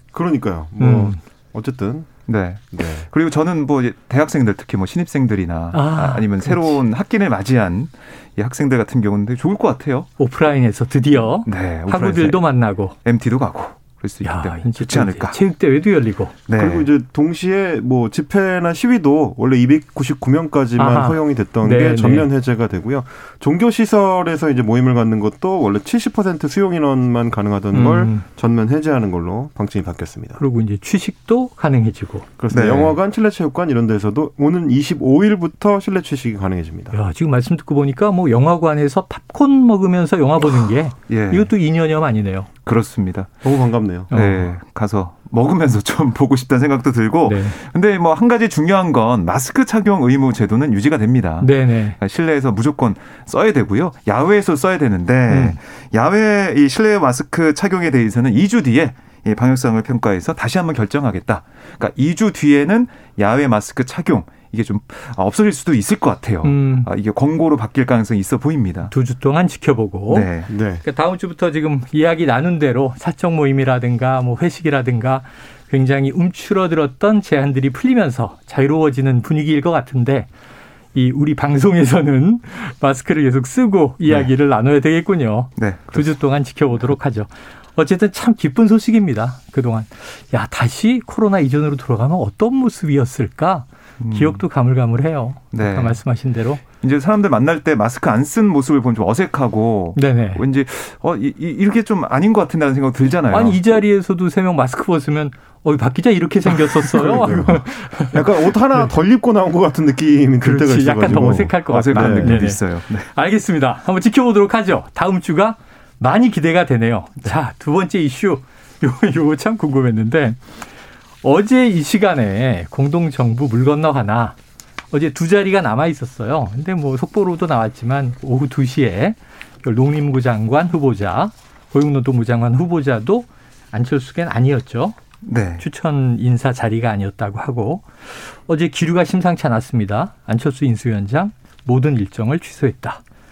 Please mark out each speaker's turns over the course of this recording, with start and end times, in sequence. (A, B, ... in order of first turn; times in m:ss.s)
0:00.1-0:02.1 A
0:00.8-0:01.2 B
0:02.3-0:10.1 C
0:02.7-0:03.0 A
0:05.7-0:06.8 B
0:10.2-0:13.0 B
0:11.4-0:12.4 C
0:13.0-0:15.4 C
0:14.2-0:16.4 B
0:16.5-0:16.9 C
0:16.6-0:30.4 A
0:20.8-0:22.3 B
0:27.7-0:28.3 B
0:30.4-0:32.3 B
0:32.4-0:37.0 A
0:32.5-0:33.0 C
0:36.9-0:42.5 B
0:41.1-0:41.5 C
0:42.7-0:43.3 C
0:43.4-0:44.1 A
0:44.1-0:44.5 B
0:44.1-1:08.9 C
0:47.2-0:47.6 B
0:51.4-0:52.0 B
0:55.3-0:55.6 B
1:06.4-1:06.9 B
1:08.9-1:10.3 B
1:10.1-1:10.5 C
1:10.5-1:10.8 A
1:10.8-1:20.3 B
1:20.9-1:36.6 B
1:25.6-1:26.1 C
1:34.0-1:34.4 C
1:35.5-1:36.0 C
1:36.8-1:43.8 C
1:40.0-1:40.4 B
1:43.3-1:48.8 B
1:46.8-1:52.5 A
1:50.4-2:00.4 B
1:51.7-1:53.1 C
2:01.2-2:04.4 B
2:04.9-2:15.0 B
2:15.2-2:15.6 C
2:15.6-2:23.0 B